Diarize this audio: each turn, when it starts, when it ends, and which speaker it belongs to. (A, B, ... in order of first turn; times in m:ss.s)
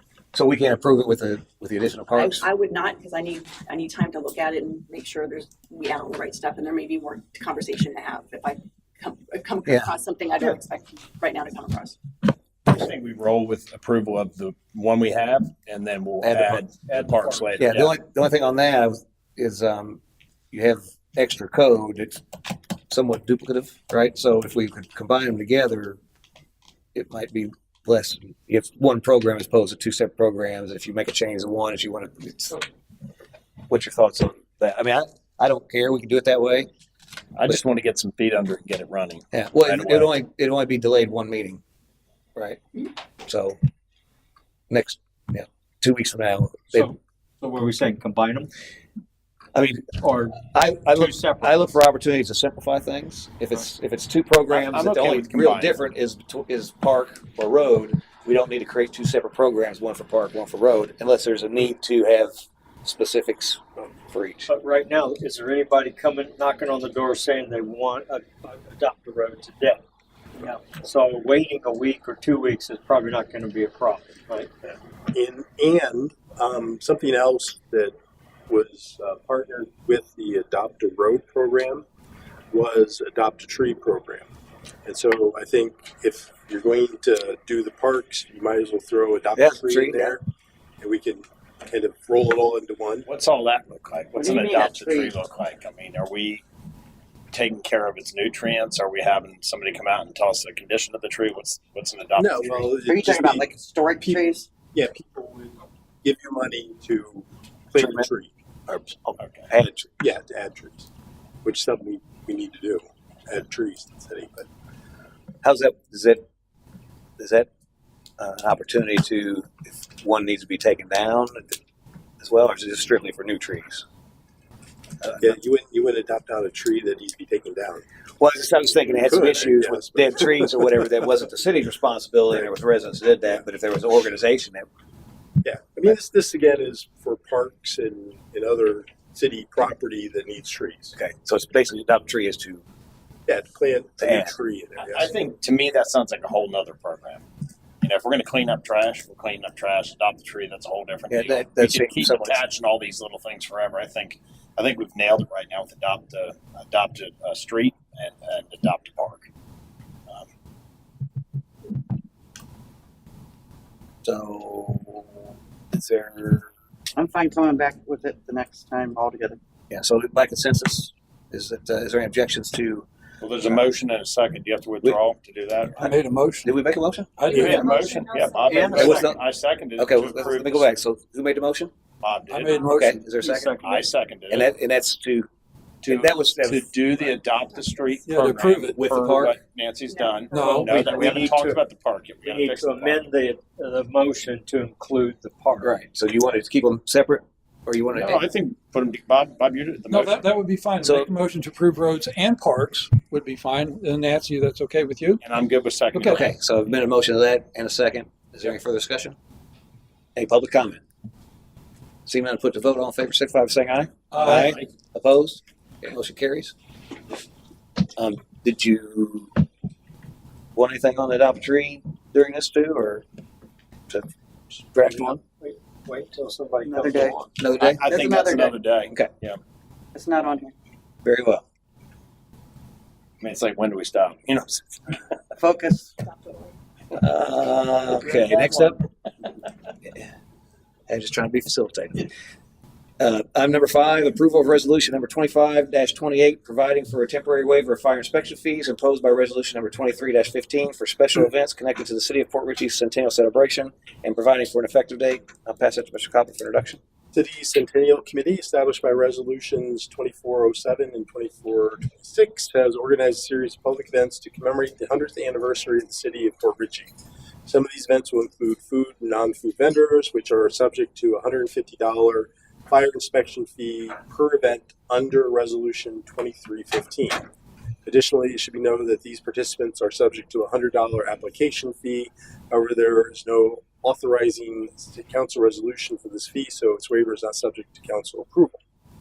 0:00.3-0:02.5 A
0:02.1-0:12.0 B
0:09.6-0:09.9 A
0:12.6-0:17.9 C
0:16.2-0:16.6 A
0:16.9-0:17.7 D
0:17.6-0:20.0 A
0:20.5-0:22.2 A
0:22.9-0:26.0 A
0:26.9-0:32.6 A
0:33.7-0:36.7 A
0:37.3-0:40.1 C
0:39.3-0:41.6 A
0:42.4-0:42.6 A
0:43.2-0:43.6 A
0:44.7-0:46.9 A
0:46.7-0:48.5 D
0:49.5-1:02.3 A
0:50.0-0:50.4 D
0:50.9-0:51.7 D
0:54.5-0:55.8 C
1:02.8-1:04.5 A
1:04.5-1:09.8 D
1:10.4-1:14.5 D
1:15.1-1:17.9 E
1:18.5-1:21.8 E
1:22.5-1:24.3 E
1:24.8-1:30.2 E
1:29.3-1:30.1 A
1:30.8-1:33.1 E
1:33.0-1:36.4 C
1:34.2-1:35.1 F
1:37.3-1:42.8 C
1:42.2-1:43.5 E
1:42.8-1:44.5 F
1:44.7-1:48.3 E
1:47.8-1:48.1 A
1:48.7-1:49.9 A
1:49.2-1:49.5 C
1:50.0-1:50.8 E
1:51.4-1:54.5 E
1:55.4-1:56.2 A
1:57.2-1:57.5 A
1:58.2-2:01.6 A
2:02.2-2:03.8 A
2:05.0-2:05.4 A
2:05.2-2:07.8 E
2:08.2-2:14.6 A
2:08.8-2:10.8 E
2:15.4-2:20.9 E
2:21.0-2:22.6 A
2:23.3-2:25.1 E
2:24.0-2:24.4 A
2:24.8-2:27.2 C
2:27.8-2:39.2 C
2:31.1-2:32.4 A
2:44.0-2:46.5 A
2:47.0-2:49.4 F
2:49.7-2:52.8 A
2:53.2-2:55.9 C
2:55.8-2:56.5 G
2:56.4-2:57.1 A
2:57.2-2:57.6 G
2:57.3-3:00.7 C
2:58.4-2:59.1 D
2:58.7-2:59.2 A
2:59.8-3:01.7 A
3:02.0-3:02.6 C
3:02.3-3:03.0 G
3:02.6-3:03.5 A
3:03.2-3:03.9 D
3:03.6-3:04.5 C
3:04.3-3:05.3 A
3:05.8-3:13.0 C
3:05.8-3:06.7 A
3:08.0-3:09.1 G
3:08.7-3:09.4 A
3:10.1-3:10.4 B
3:10.3-3:11.2 G
3:10.4-3:11.6 D
3:12.2-3:15.8 D
3:15.6-3:18.2 A
3:17.9-3:20.3 C
3:19.9-3:25.2 G
3:20.8-3:21.1 A
3:25.2-3:26.3 C
3:25.9-3:26.2 G
3:26.1-3:29.1 A
3:30.2-3:30.8 A
3:32.1-3:36.5 A
3:34.1-3:34.6 G
3:34.3-3:34.6 C
3:38.0-3:39.4 A
3:40.5-3:43.0 A
3:44.6-3:45.2 A
3:44.8-3:47.3 D
3:46.6-3:47.2 F
3:47.3-3:48.2 A
3:47.6-3:49.4 C
3:47.9-3:48.5 F
3:49.9-3:50.5 F
3:51.0-3:51.4 A
3:53.2-3:54.6 C
3:55.4-3:56.0 F
3:56.9-3:58.9 A
3:59.8-4:00.1 A
4:00.9-4:02.1 A
4:03.0-4:16.8 A
4:17.1-4:26.9 E
4:27.5-4:37.2 E
4:37.8-4:48.6 E